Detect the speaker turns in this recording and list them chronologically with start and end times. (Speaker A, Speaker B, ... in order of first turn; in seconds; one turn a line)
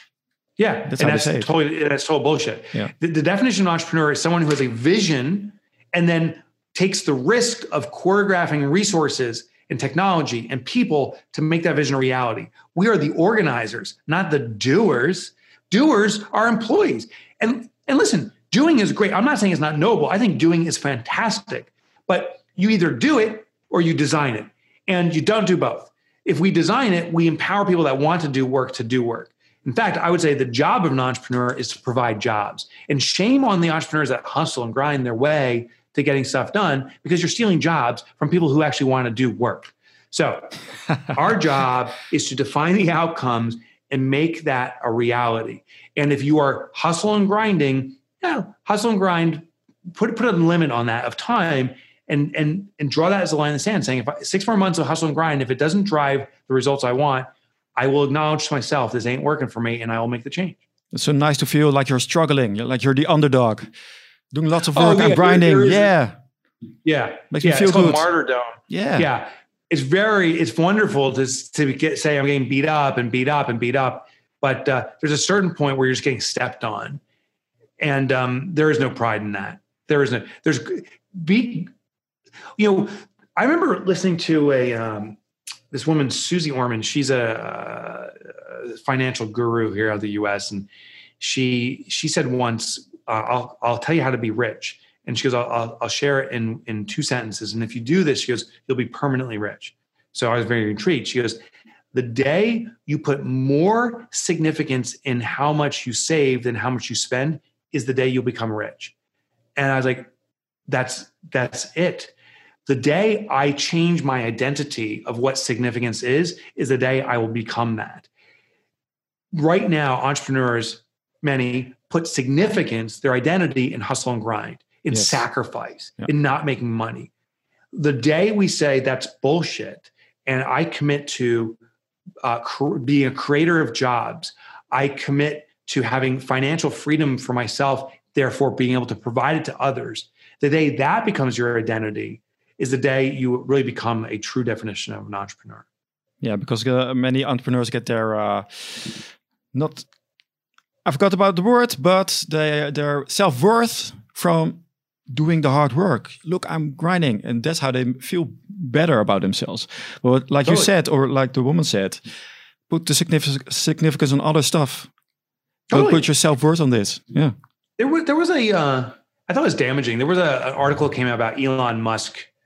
Speaker A: 0.6-60.6
Speaker B: 0.9-1.5
Speaker B: 60.9-63.7
Speaker B: 64.3-66.2
Speaker A: 64.7-65.9
Speaker A: 66.8-77.0
Speaker B: 67.3-68.1
Speaker B: 68.7-69.1
Speaker A: 77.8-81.7
Speaker A: 82.6-85.2
Speaker A: 85.7-90.7
Speaker A: 91.2-101.4
Speaker A: 101.9-108.9
Speaker A: 109.6-110.1
Speaker A: 110.7-112.1
Speaker A: 112.7-118.1
Speaker A: 119.3-127.1
Speaker B: 124.9-125.2
Speaker A: 127.7-131.6
Speaker A: 132.2-145.6
Speaker B: 146.2-149.9
Speaker B: 150.8-162.0
Speaker B: 162.7-164.9
Speaker A: 165.7-166.1
Speaker B: 165.7-167.3
Speaker A: 167.8-172.3